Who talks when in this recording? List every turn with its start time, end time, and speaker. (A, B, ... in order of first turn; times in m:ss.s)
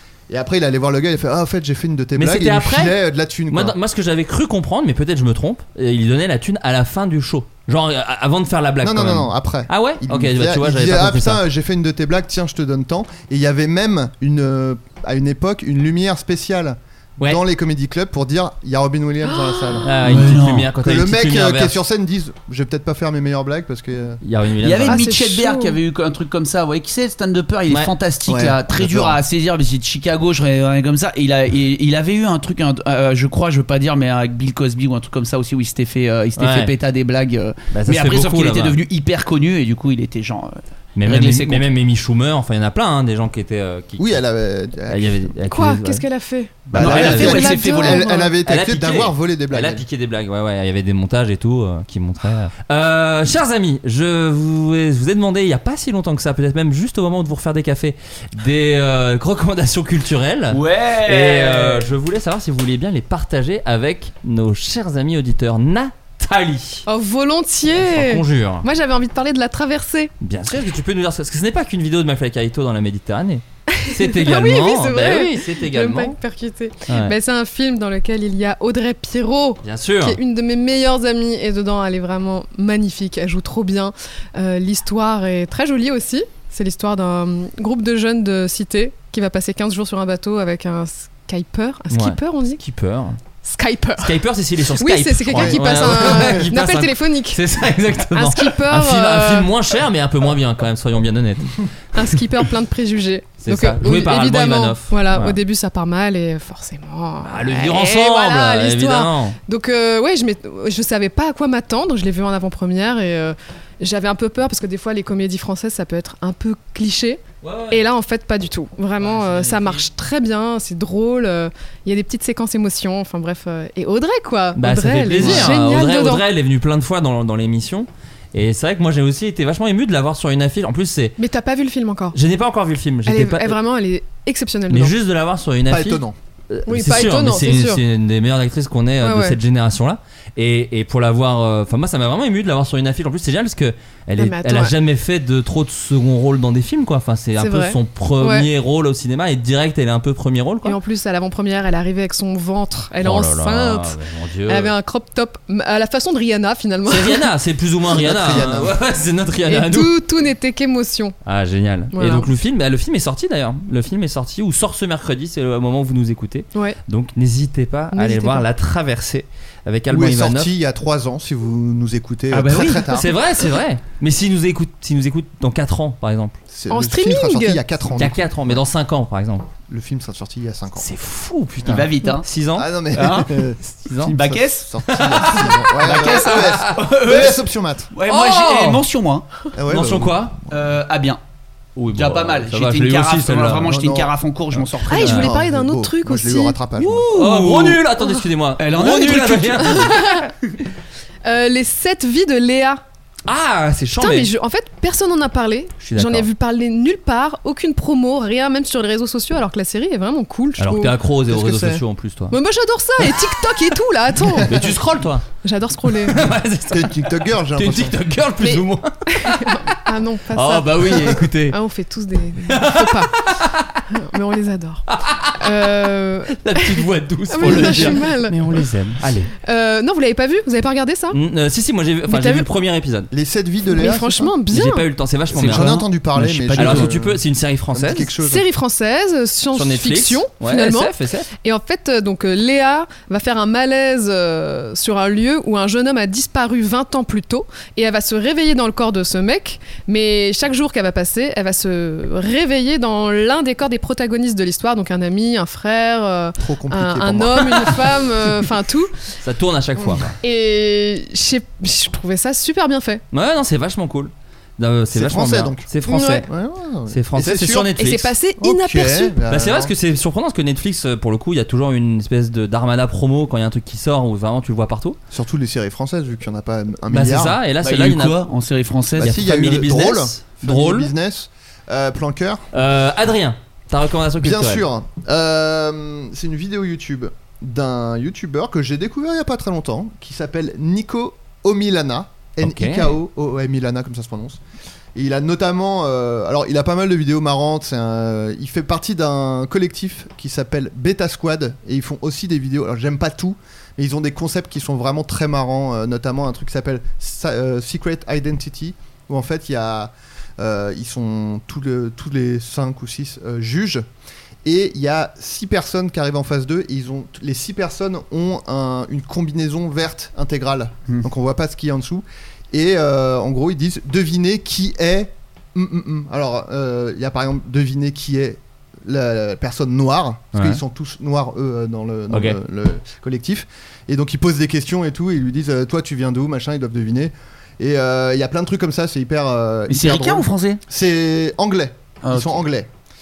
0:00.3-0:03.8 A
0:02.2-0:11.4 B
0:08.8-0:19.9 A
0:19.3-0:19.8 C
0:19.8-0:21.8 B
0:20.0-0:20.7 D
0:20.8-0:24.2 A
0:24.2-0:25.0 B
0:24.6-0:41.6 D
0:24.9-0:25.8 C
0:28.3-0:29.2 A
0:36.4-0:36.7 B
0:37.7-0:38.8 B
0:41.0-0:44.2 B
0:44.0-0:45.3 A
0:44.9-0:46.0 B
0:45.5-0:48.4 C
0:46.7-0:47.6 B
0:46.7-0:49.8 A
0:46.7-0:48.0 D
0:48.4-1:06.8 B
1:00.5-1:01.9 D
1:06.9-1:10.1 C
1:07.7-1:08.7 B
1:10.2-1:16.2 B
1:13.7-1:32.6 C
1:16.9-1:17.2 B
1:19.6-1:20.2 B
1:31.9-1:33.2 B
1:33.4-1:34.2 C
1:34.0-1:41.7 B
1:34.8-1:37.4 C
1:35.3-1:36.4 A
1:38.1-1:39.5 C
1:41.9-2:06.2 C
1:43.4-1:45.4 B
1:47.2-1:49.4 B
1:57.4-1:57.8 B
1:59.0-1:59.9 B
2:04.6-2:11.2 B
2:05.2-2:05.5 A
2:11.2-2:12.2 C
2:12.1-2:13.6 B
2:13.0-2:15.0 C
2:14.7-2:30.8 B
2:15.7-2:16.2 A
2:16.7-2:17.8 C
2:19.0-2:19.4 C
2:24.2-2:24.8 C
2:27.4-2:28.5 C
2:30.6-2:34.0 C
2:33.0-2:34.7 B
2:34.5-2:37.3 C
2:36.9-2:40.0 B
2:37.9-2:38.8 A
2:39.5-2:41.2 C
2:41.2-2:50.5 B
2:41.9-2:42.3 C
2:47.9-2:48.4 C
2:49.9-2:53.1 A
2:52.3-2:52.8 D
2:52.9-2:56.4 B
2:56.5-2:58.6 A
2:56.7-2:57.6 C
2:58.0-2:59.5 B
2:59.7-3:00.9 A
3:00.8-3:02.7 B
3:01.6-3:02.3 D
3:02.6-3:07.9 A
3:02.9-3:03.3 D
3:03.7-3:04.2 B
3:04.0-3:04.7 D
3:04.9-3:06.8 B
3:05.8-3:09.3 D
3:08.1-3:08.8 B
3:09.6-3:10.3 A
3:09.7-3:10.4 B
3:10.5-3:11.2 D
3:11.8-3:13.7 B
3:11.8-3:15.3 D
3:13.6-3:14.1 A
3:14.9-3:16.6 C
3:15.0-3:15.3 B
3:15.1-3:17.1 A
3:16.8-3:17.8 D
3:17.1-3:20.3 B
3:18.6-3:19.9 D
3:19.7-3:20.3 C
3:21.2-3:22.8 C
3:23.3-3:24.3 B
3:24.0-3:31.0 C
3:25.8-3:26.3 B
3:30.6-3:32.4 B
3:31.3-3:31.8 A
3:32.3-3:34.8 C
3:33.0-3:33.6 B
3:34.5-3:35.3 B
3:35.4-3:36.2 C
3:36.1-3:39.6 B
3:36.7-3:38.0 A
3:38.4-3:43.1 C
3:40.3-3:41.6 B
3:42.5-3:43.9 B
3:43.9-3:44.8 C
3:44.9-3:45.8 B
3:45.4-3:48.6 C
3:46.3-3:49.3 B
3:49.4-3:51.2 C
3:51.1-3:53.1 B
3:52.1-3:52.5 C
3:53.1-3:54.3 A
3:53.7-3:54.9 C
3:54.5-3:58.1 B
3:55.3-3:57.2 A
3:55.4-3:56.9 D
3:57.7-3:58.4 A
3:58.2-4:18.9 C
3:59.6-4:01.3 B
4:16.4-4:17.7 A
4:19.2-4:20.2 B
4:19.9-4:23.0 C
4:23.1-4:26.3 B
4:24.9-4:27.7 A
4:25.9-4:26.2 C
4:26.9-4:28.1 B
4:27.8-4:29.2 C
4:28.4-4:29.7 A
4:29.3-4:35.0 B
4:35.1-4:37.4 A
4:36.9-4:38.3 B
4:37.6-4:39.4 D
4:39.0-4:42.5 A
4:39.0-4:40.9 B
4:42.5-4:44.7 B
4:44.2-4:54.4 A
4:52.4-4:52.9 B
4:55.0-5:13.8 A
5:14.4-5:42.7 A
5:30.3-5:30.6 B
5:32.1-5:32.4 B
5:39.7-5:40.6 D
5:42.0-5:42.4 D